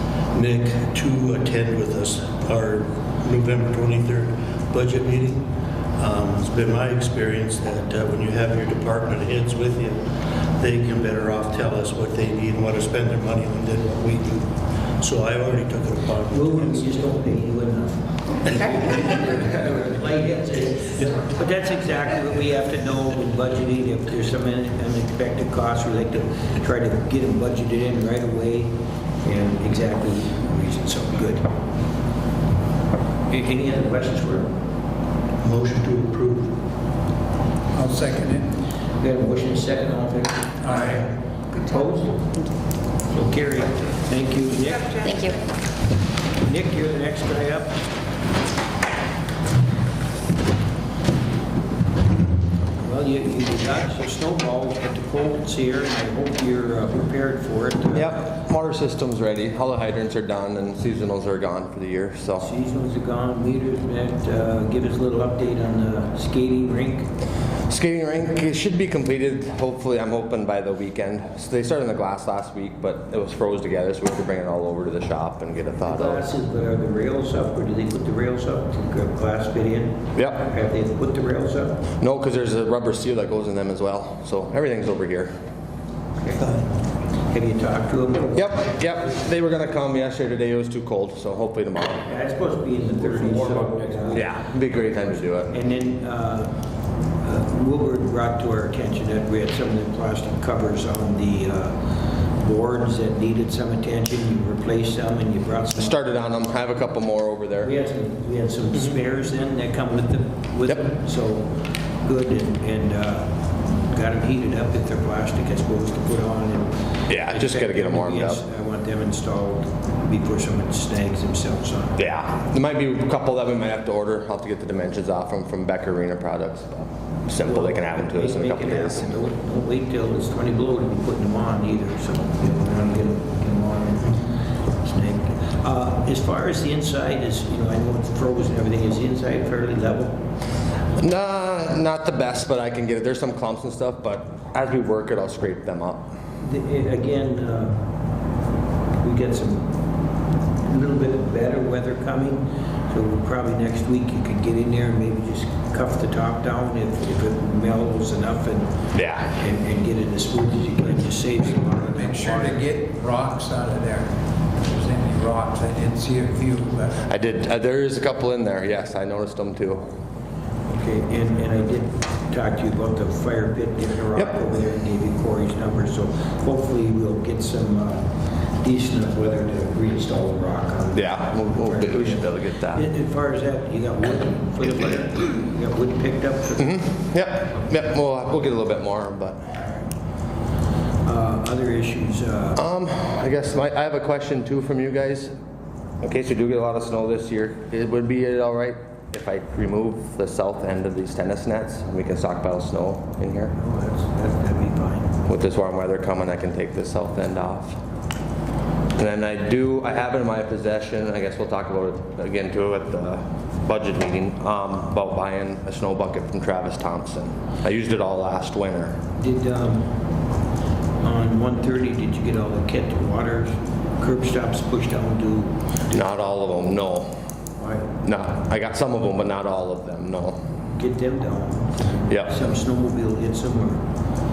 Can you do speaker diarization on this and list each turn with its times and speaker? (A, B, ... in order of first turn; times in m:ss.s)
0:00.3-0:17.0 A
0:16.3-0:31.5 B
0:33.3-0:34.5 B
0:35.4-0:36.6 A
0:37.7-0:38.5 C
0:39.0-0:42.4 B
0:40.6-0:41.0 C
0:43.1-0:45.4 B
0:46.4-0:47.8 B
0:52.8-0:58.2 B
0:57.9-1:02.5 D
1:02.4-1:07.1 B
1:07.7-1:16.2 D
1:15.8-1:21.8 B
1:20.1-1:20.4 D
1:22.0-1:25.3 D
1:26.2-1:26.6 B
1:27.3-1:28.6 B
1:28.3-1:32.0 D
1:32.0-1:36.5 B
1:33.5-1:35.5 D
1:37.2-1:46.2 B
1:45.7-1:47.7 D
1:47.6-2:02.0 B
1:57.1-1:58.4 D
2:02.0-2:09.1 D
2:07.4-2:20.2 B
2:21.0-2:26.1 D
2:26.4-2:27.8 B
2:29.0-2:29.7 B
2:30.6-2:42.6 B
2:38.9-2:39.3 D
2:41.7-2:47.0 C
2:47.0-2:49.9 D
2:50.7-3:06.8 B
3:00.9-3:02.8 D
3:06.6-3:09.7 D
3:11.0-3:12.6 B
3:12.6-3:15.3 D
3:16.0-3:23.5 D
3:23.6-3:25.1 B
3:25.2-3:27.8 D
3:29.0-3:39.0 D
3:39.2-3:39.9 B
3:41.0-3:46.0 B
3:45.9-3:47.1 D
3:47.6-3:47.9 B
3:48.0-3:50.4 D
3:50.7-3:53.8 B